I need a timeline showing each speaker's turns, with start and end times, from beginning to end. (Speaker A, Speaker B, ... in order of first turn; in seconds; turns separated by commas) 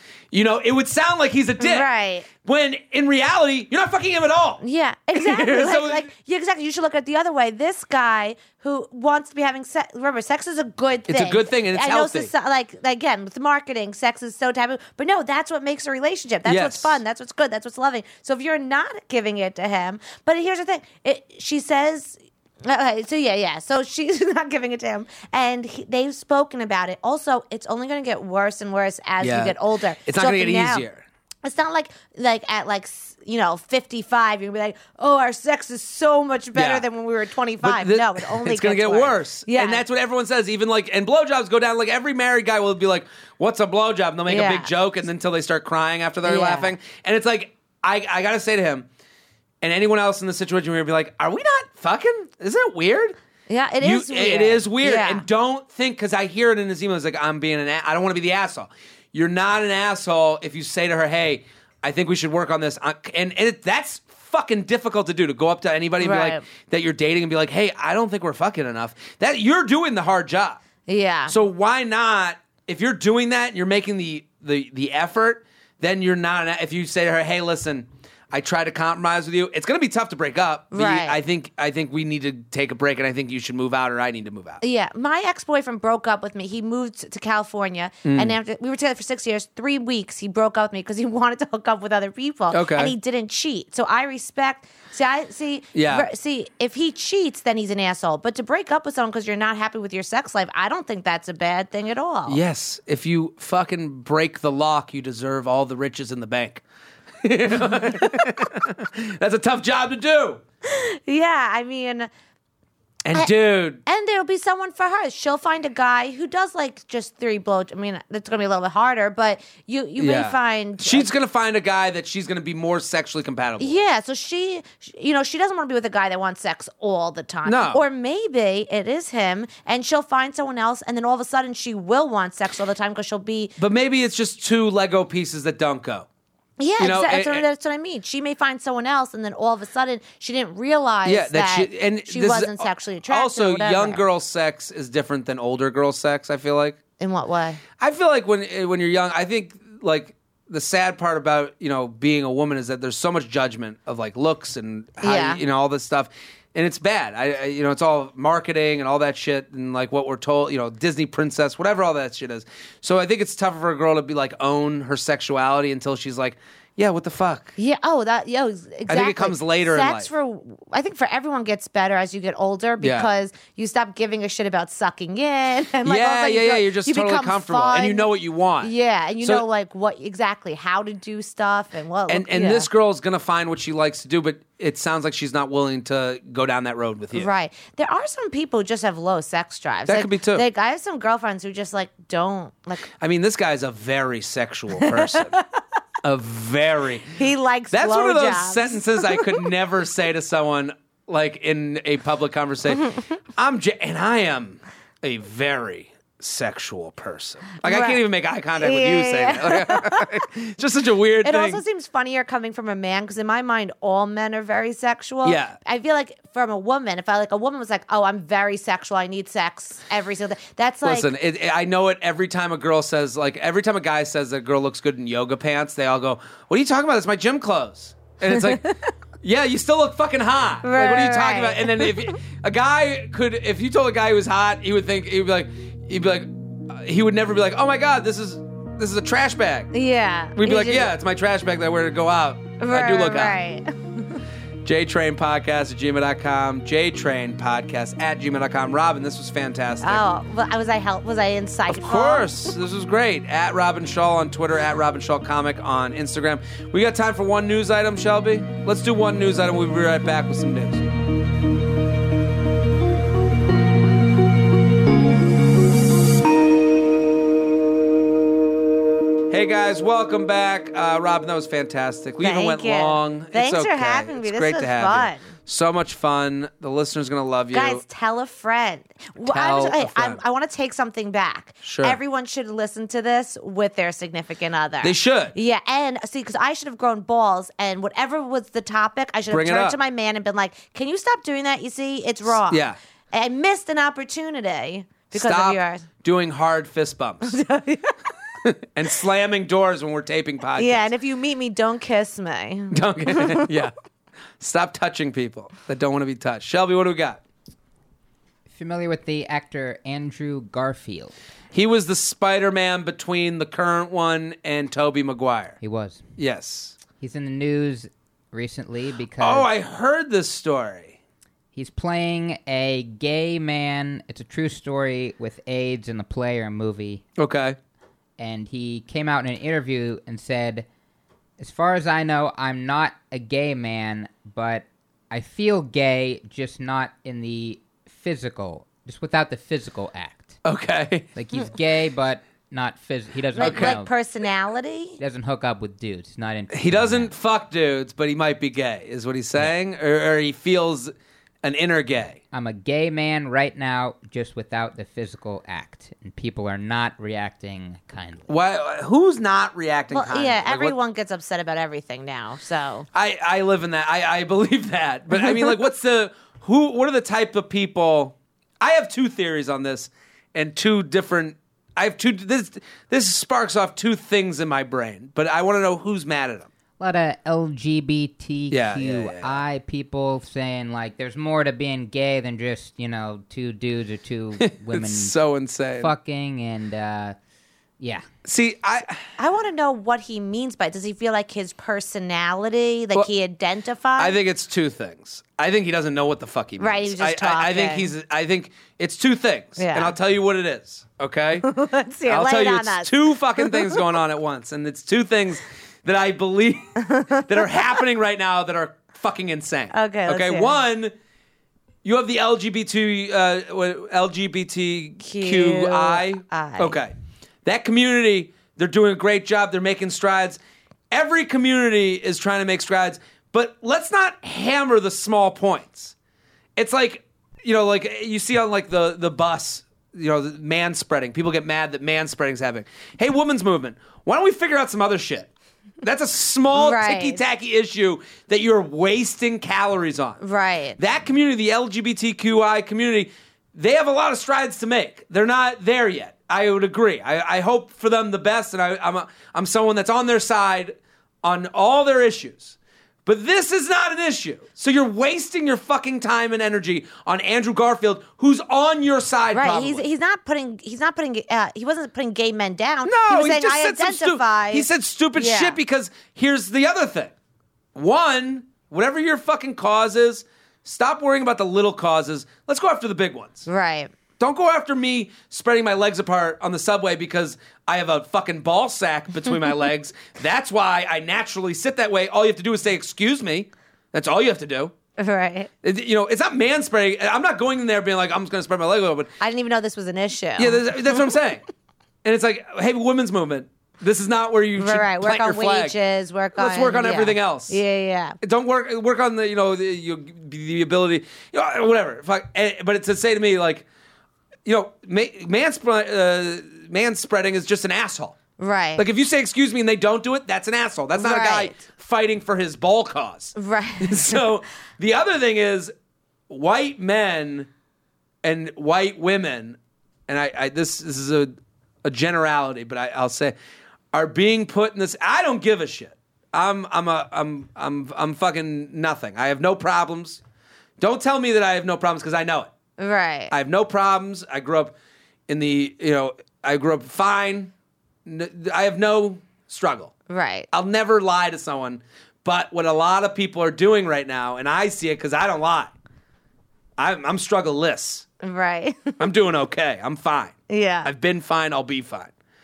Speaker A: 0.3-4.6, Speaker B: 1.6-2.3, Speaker B: 4.6-30.9, Speaker A: 5.1-6.1, Speaker A: 11.1-12.3, Speaker A: 16.4-17.0, Speaker A: 29.2-31.1, Speaker B: 31.4-39.8, Speaker A: 36.5-36.9, Speaker A: 37.6-48.9, Speaker B: 44.3-44.7, Speaker B: 46.2-46.7, Speaker A: 49.6-53.2, Speaker B: 53.5-55.2, Speaker A: 53.8-70.6, Speaker B: 66.0-66.5, Speaker B: 70.9-71.4, Speaker A: 71.3-84.6, Speaker B: 80.7-81.2, Speaker B: 84.6-102.4, Speaker A: 88.0-88.4, Speaker A: 92.5-93.0, Speaker A: 95.7-96.1, Speaker A: 102.3-106.6, Speaker A: 107.2-110.4, Speaker B: 107.6-108.3, Speaker B: 110.7-112.1, Speaker A: 113.0-113.8, Speaker B: 113.1-121.1, Speaker A: 120.0-123.8, Speaker B: 123.6-133.5, Speaker A: 127.5-127.8, Speaker A: 133.6-136.1, Speaker B: 136.6-144.0, Speaker A: 136.8-137.4, Speaker A: 141.1-146.8, Speaker B: 147.0-147.6, Speaker A: 147.8-167.5, Speaker B: 155.0-155.4, Speaker B: 167.6-178.1, Speaker A: 168.9-170.1, Speaker A: 172.8-173.1, Speaker A: 175.8-179.4, Speaker B: 178.6-182.7, Speaker A: 182.1-187.3, Speaker B: 187.1-192.9, Speaker A: 189.9-190.5, Speaker A: 193.0-195.4, Speaker B: 194.8-195.6, Speaker A: 196.0-197.2, Speaker B: 197.2-199.4, Speaker A: 197.7-211.6, Speaker B: 207.6-208.0, Speaker B: 208.6-210.2, Speaker B: 211.2-221.1, Speaker A: 215.2-215.6, Speaker A: 220.8-228.7, Speaker B: 228.3-228.7, Speaker A: 229.2-239.7, Speaker B: 230.6-232.1, Speaker B: 239.7-240.9, Speaker A: 240.4-243.4, Speaker B: 242.6-244.2, Speaker A: 244.6-250.1, Speaker B: 249.8-252.3, Speaker A: 251.7-260.9, Speaker A: 269.3-277.8, Speaker B: 272.2-275.3, Speaker B: 277.5-295.9, Speaker A: 279.3-280.2, Speaker A: 281.6-282.0, Speaker A: 284.8-285.4, Speaker A: 289.3-289.8, Speaker A: 292.3-292.8, Speaker A: 295.1-297.4, Speaker B: 297.2-298.0, Speaker A: 298.4-300.9, Speaker B: 300.6-303.5, Speaker A: 302.7-303.7, Speaker A: 304.4-307.2, Speaker C: 308.5-311.1, Speaker A: 311.5-315.6, Speaker C: 315.6-316.1, Speaker A: 316.2-316.8, Speaker C: 317.0-319.5, Speaker A: 319.2-321.0, Speaker C: 321.5-327.0, Speaker A: 327.2-327.6, Speaker C: 328.2-330.7, Speaker C: 331.4-340.4, Speaker A: 340.4-341.1, Speaker C: 341.1-343.9, Speaker B: 343.3-345.0, Speaker A: 343.4-343.8, Speaker C: 345.0-347.1, Speaker A: 346.5-352.2, Speaker C: 352.3-358.3, Speaker A: 358.3-360.8, Speaker B: 359.9-362.9, Speaker A: 362.9-376.5, Speaker C: 376.8-385.1, Speaker A: 378.5-379.4, Speaker A: 384.4-385.9, Speaker C: 385.8-387.2, Speaker C: 387.8-388.1, Speaker A: 388.2-389.1, Speaker B: 389.2-394.2, Speaker A: 394.0-401.5, Speaker B: 396.6-397.9, Speaker B: 399.6-400.0, Speaker B: 401.4-403.8, Speaker A: 402.1-410.9, Speaker B: 406.8-407.7, Speaker B: 409.7-410.6, Speaker A: 411.8-416.9, Speaker B: 415.0-416.8, Speaker A: 417.4-420.4, Speaker A: 420.9-425.9, Speaker A: 426.6-435.3, Speaker A: 435.8-440.2, Speaker B: 436.5-437.2, Speaker B: 440.2-440.8, Speaker A: 440.8-459.8, Speaker B: 459.3-465.6, Speaker A: 462.9-467.1, Speaker A: 467.8-473.5, Speaker B: 473.5-473.9, Speaker A: 474.2-484.7, Speaker B: 485.0-485.5, Speaker A: 485.6-489.1, Speaker B: 489.2-491.1, Speaker A: 490.4-491.4, Speaker A: 492.0-495.8, Speaker B: 494.6-498.2, Speaker A: 496.4-497.6, Speaker A: 498.2-503.7, Speaker A: 504.4-508.2, Speaker B: 508.4-508.9, Speaker A: 508.8-515.7, Speaker B: 511.0-511.6, Speaker B: 513.4-514.2, Speaker A: 516.3-517.5, Speaker A: 518.2-523.4, Speaker A: 523.9-530.2, Speaker A: 530.8-532.5, Speaker B: 532.8-533.3, Speaker A: 533.3-534.7, Speaker A: 535.3-537.5, Speaker A: 538.0-539.9, Speaker B: 540.1-540.5, Speaker A: 540.5-545.7, Speaker A: 546.8-548.1, Speaker B: 548.2-549.0, Speaker A: 549.0-552.1, Speaker B: 550.5-550.9